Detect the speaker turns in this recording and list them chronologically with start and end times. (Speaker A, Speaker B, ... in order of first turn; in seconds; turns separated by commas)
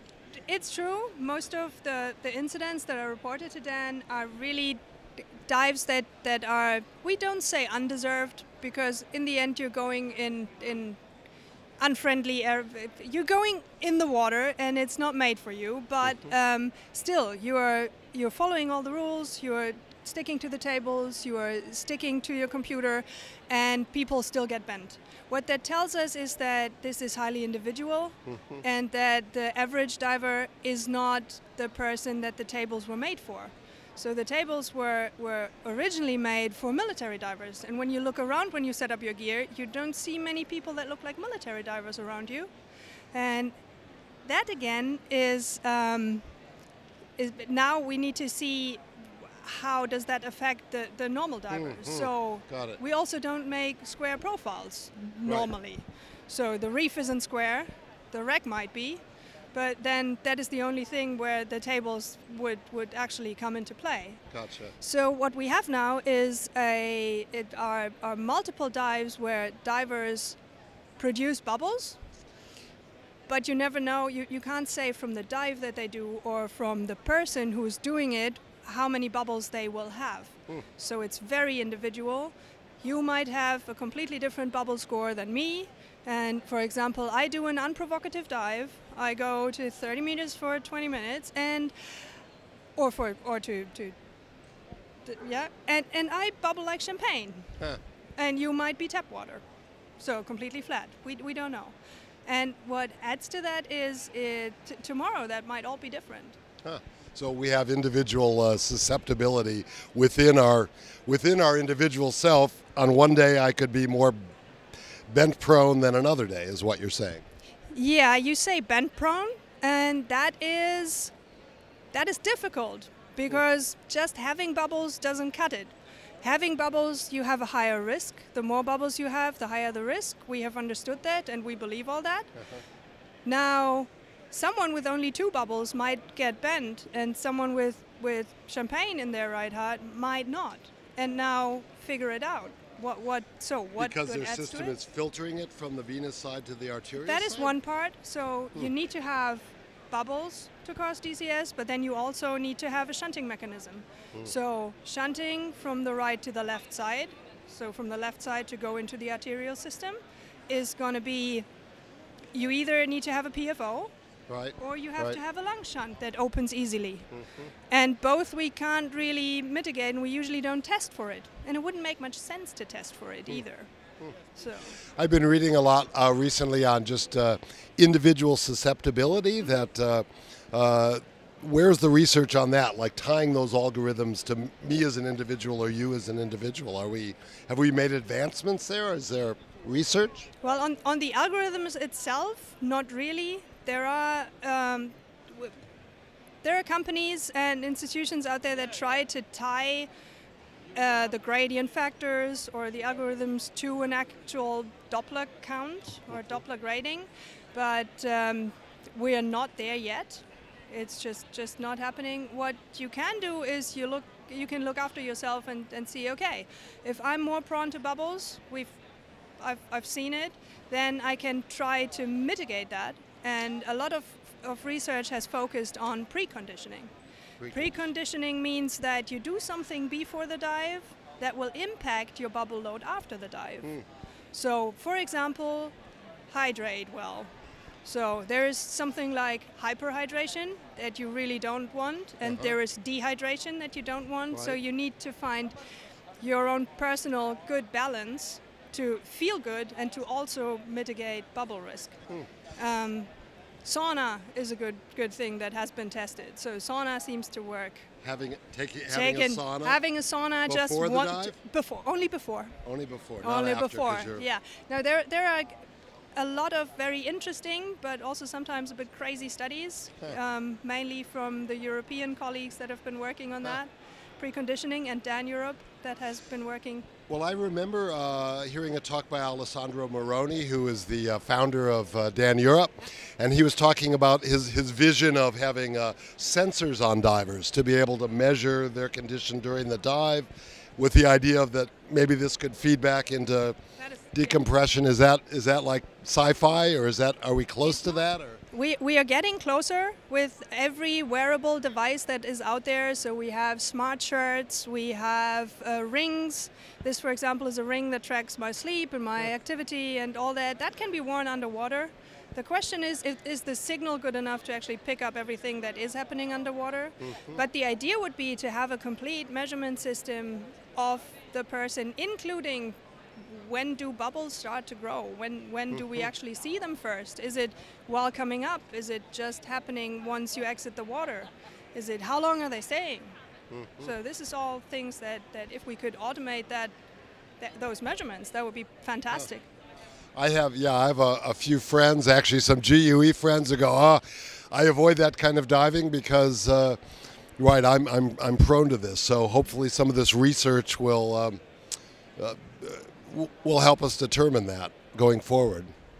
Speaker A: 0.5-4.8, Speaker A: 5.4-11.0, Speaker A: 11.8-42.5, Speaker A: 43.1-43.5, Speaker A: 44.2-46.3, Speaker A: 47.2-59.0, Speaker B: 51.5-52.8, Speaker A: 59.5-64.2, Speaker B: 64.3-64.7, Speaker A: 64.8-70.4, Speaker A: 71.0-72.0, Speaker A: 73.3-92.0, Speaker A: 92.8-93.9, Speaker A: 95.0-97.6, Speaker A: 98.2-99.4, Speaker A: 100.0-106.4, Speaker B: 106.6-114.2, Speaker B: 115.1-117.2, Speaker A: 117.7-121.1, Speaker A: 121.9-132.3, Speaker A: 133.2-144.8, Speaker B: 143.8-147.6, Speaker A: 147.0-161.4, Speaker A: 162.3-163.9, Speaker B: 164.3-165.2, Speaker A: 164.6-167.1, Speaker A: 167.7-173.7, Speaker A: 174.3-174.8, Speaker B: 174.9-190.3, Speaker A: 190.4-195.5, Speaker A: 196.4-199.9, Speaker A: 200.7-218.7, Speaker A: 219.4-226.9, Speaker B: 227.4-227.8, Speaker A: 227.5-233.8, Speaker A: 234.3-235.7, Speaker A: 236.3-237.3, Speaker A: 237.8-245.6, Speaker B: 242.2-242.5, Speaker B: 244.3-244.6, Speaker A: 246.2-252.0, Speaker A: 252.6-253.1, Speaker A: 253.6-257.9, Speaker B: 258.0-259.8, Speaker A: 258.9-262.6, Speaker B: 260.5-261.4, Speaker B: 262.6-264.2, Speaker A: 263.2-276.9, Speaker B: 277.1-293.6, Speaker A: 293.8-294.4, Speaker B: 294.1-298.4, Speaker A: 298.5-333.1, Speaker B: 333.5-333.9, Speaker A: 333.8-336.7, Speaker A: 337.4-339.4, Speaker B: 340.1-346.8, Speaker B: 347.4-351.4, Speaker B: 352.2-355.7